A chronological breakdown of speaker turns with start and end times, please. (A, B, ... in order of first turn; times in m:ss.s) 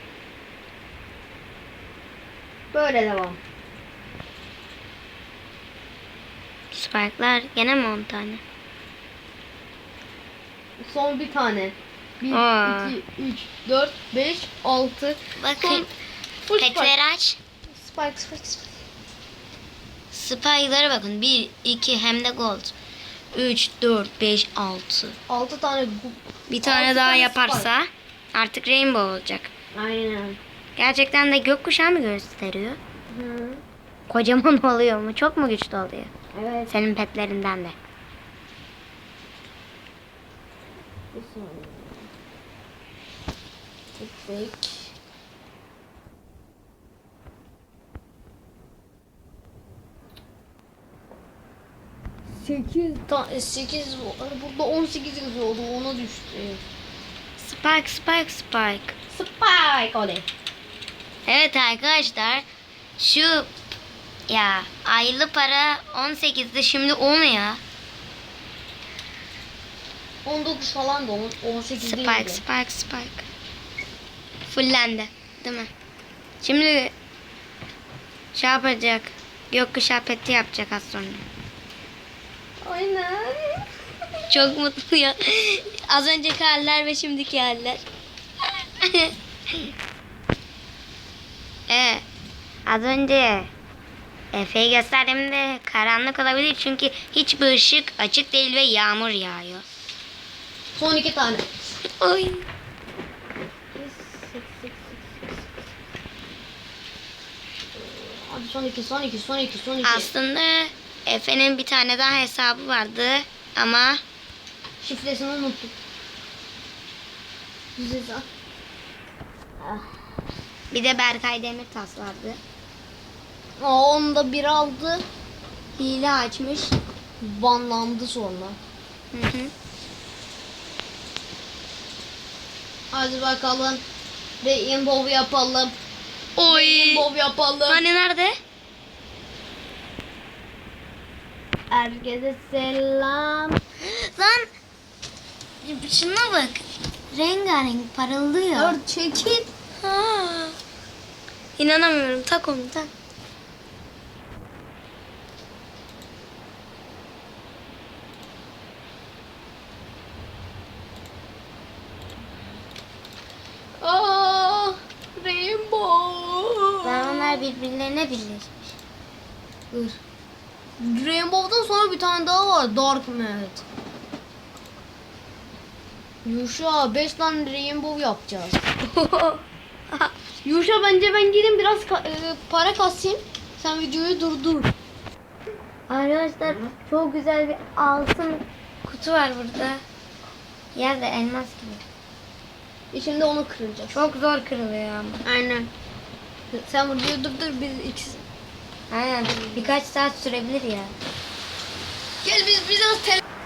0:02.7-0:03.4 A
0:06.7-0:08.4 B
0:10.8-0:15.9 A
0:12.3-0:13.0 B
0:15.4-0:15.9 B
0:16.5-0:17.0 A
0:16.6-0:17.4 B
0:17.7-0:18.8 A
0:20.1-0:22.7 B
0:23.3-0:25.2 B
0:25.3-0:27.7 A
0:26.5-0:29.5 B
0:29.7-0:30.4 A
0:30.8-0:32.8 B
0:33.1-0:33.6 A
0:34.1-0:36.1 B
0:36.3-0:36.7 A
0:36.7-0:37.8 B
0:41.1-0:42.1 A
0:44.0-0:44.9 A
0:52.4-0:56.6 A
0:57.4-0:58.9 B
0:59.1-1:00.3 A
1:01.3-1:02.5 B
1:03.0-1:03.5 B
1:04.3-1:07.6 B
1:10.2-1:12.4 A
1:11.8-1:13.3 B
1:14.5-1:15.7 B
1:16.4-1:16.9 B
1:18.3-1:21.2 B
1:22.6-1:23.7 A
1:24.3-1:27.8 B
1:28.8-1:29.7 B
1:31.7-1:32.0 B
1:32.7-1:33.5 B
1:34.3-1:39.7 B
1:40.8-1:41.5 A
1:42.0-1:42.5 B
1:43.7-1:45.5 A
1:47.8-1:50.1 A
1:49.8-1:54.0 B
1:54.8-1:55.7 A
1:57.8-1:58.3 A
1:59.6-2:00.0 A
2:00.7-2:02.4 B
2:03.6-2:05.0 A
2:05.8-2:06.8 B
2:07.2-2:08.6 A
2:09.1-2:09.5 B
2:12.9-2:13.8 A
2:14.4-2:15.8 A
2:16.4-2:17.1 B
2:16.5-2:17.8 A
2:17.7-2:18.4 B
2:21.7-2:23.6 A
2:23.8-2:24.5 B
2:25.6-2:28.8 B
2:28.6-2:29.5 A
2:29.8-2:30.6 B
2:31.6-2:32.9 B
2:43.8-2:47.4 A
2:46.8-2:48.7 B
2:49.7-2:50.0 A
2:50.8-2:53.6 A
2:56.2-2:58.7 A
2:58.8-2:59.4 B
3:00.4-3:04.7 A
3:05.9-3:09.8 B
3:10.8-3:11.8 B
3:12.9-3:14.0 A
3:13.9-3:15.2 B
3:15.2-3:15.7 A
3:16.5-3:18.2 A
3:18.9-3:21.0 B
3:22.2-3:23.2 A